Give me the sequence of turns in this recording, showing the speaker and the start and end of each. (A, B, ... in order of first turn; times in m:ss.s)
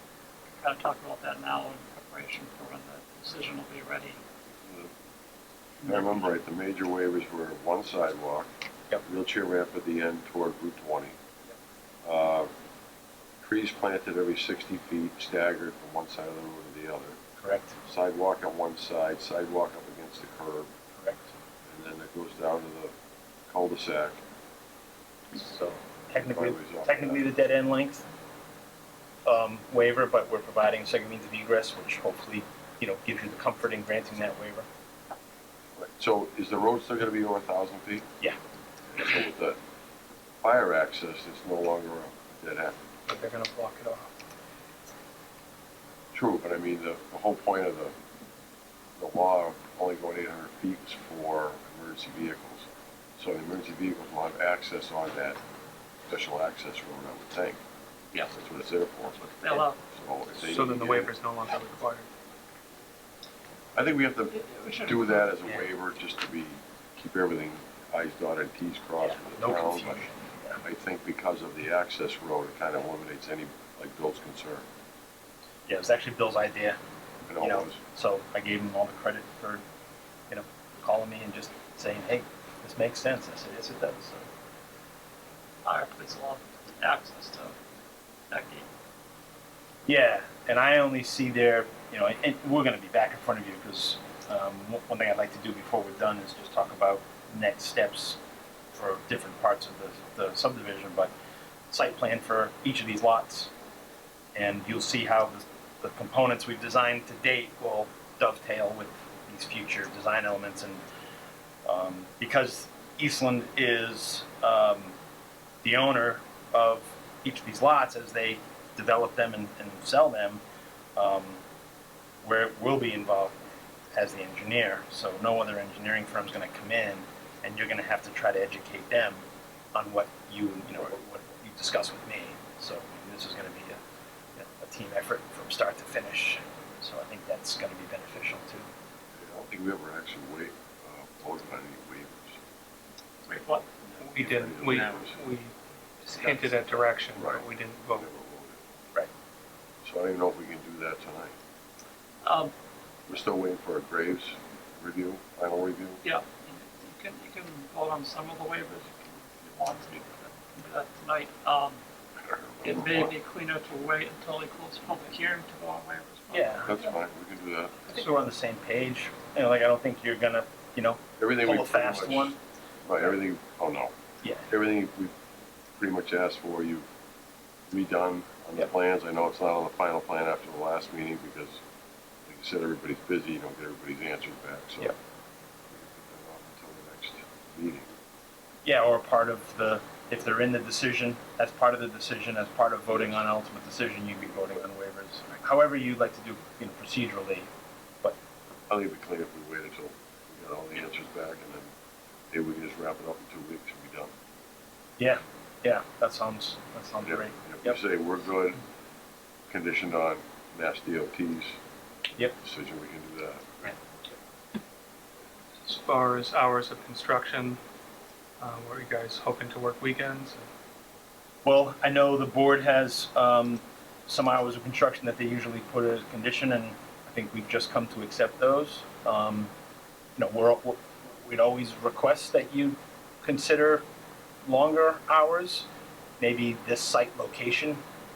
0:00.6-0:04.2 A
0:04.5-0:04.9 B
0:05.8-0:08.5 B
0:09.0-0:11.2 B
0:12.0-0:12.5 B
0:13.4-0:17.2 B
0:17.4-0:17.8 C
0:17.8-0:20.7 B
0:20.9-0:21.3 C
0:21.7-0:22.9 B
0:23.5-0:24.2 B
0:25.4-0:28.0 C
0:26.1-0:27.3 B
0:29.2-0:34.7 C
0:35.8-0:38.1 B
0:38.9-0:39.6 B
0:40.4-0:42.8 B
0:43.1-0:44.0 D
0:43.4-0:43.8 C
0:46.1-0:47.9 B
0:49.0-0:52.7 B
0:53.2-0:55.4 B
0:56.1-0:57.6 B
0:58.3-0:59.2 B
0:59.2-0:59.8 A
0:59.8-1:01.1 B
1:00.4-1:02.1 D
1:03.7-1:10.0 B
1:04.3-1:05.6 A
1:09.0-1:10.6 C
1:10.6-1:14.6 B
1:15.7-1:16.8 C
1:17.2-1:17.8 B
1:17.4-1:19.6 C
1:20.3-1:24.3 C
1:25.6-1:27.6 A
1:28.3-1:28.7 A
1:29.8-1:38.2 C
1:38.7-1:41.1 C
1:41.7-1:43.5 C
1:44.3-1:50.8 C
1:51.6-1:54.9 C
1:55.6-2:00.4 C
2:01.0-2:01.4 C
2:02.2-2:03.4 C
2:03.9-2:13.8 C
2:14.3-2:18.7 C
2:19.1-2:22.4 B
2:23.2-2:24.1 A
2:24.0-2:28.1 D
2:24.0-2:25.2 B
2:26.2-2:26.8 A
2:27.1-2:28.6 B
2:29.8-2:31.3 B
2:32.2-2:32.5 A
2:33.1-2:36.0 B
2:36.0-2:41.8 A
2:42.2-2:43.1 B
2:42.6-2:46.9 A
2:46.3-2:46.7 C
2:46.6-2:47.9 B
2:47.9-2:52.4 C
2:51.2-2:53.9 B
2:54.2-2:54.5 C
2:54.5-2:55.1 B
2:55.8-2:56.8 B
2:57.7-3:01.6 B
3:02.2-3:05.0 B
3:05.7-3:07.9 B
3:08.6-3:17.5 C
3:12.9-3:13.2 B
3:18.7-3:21.7 B
3:22.3-3:24.1 B
3:25.0-3:27.8 C
3:27.0-3:28.6 B
3:29.5-3:31.6 B
3:32.4-3:33.7 B
3:35.6-3:37.6 D
3:38.4-3:40.5 D
3:41.4-3:49.5 C
3:50.2-3:53.8 C
3:54.4-3:55.7 C
3:56.2-3:57.8 C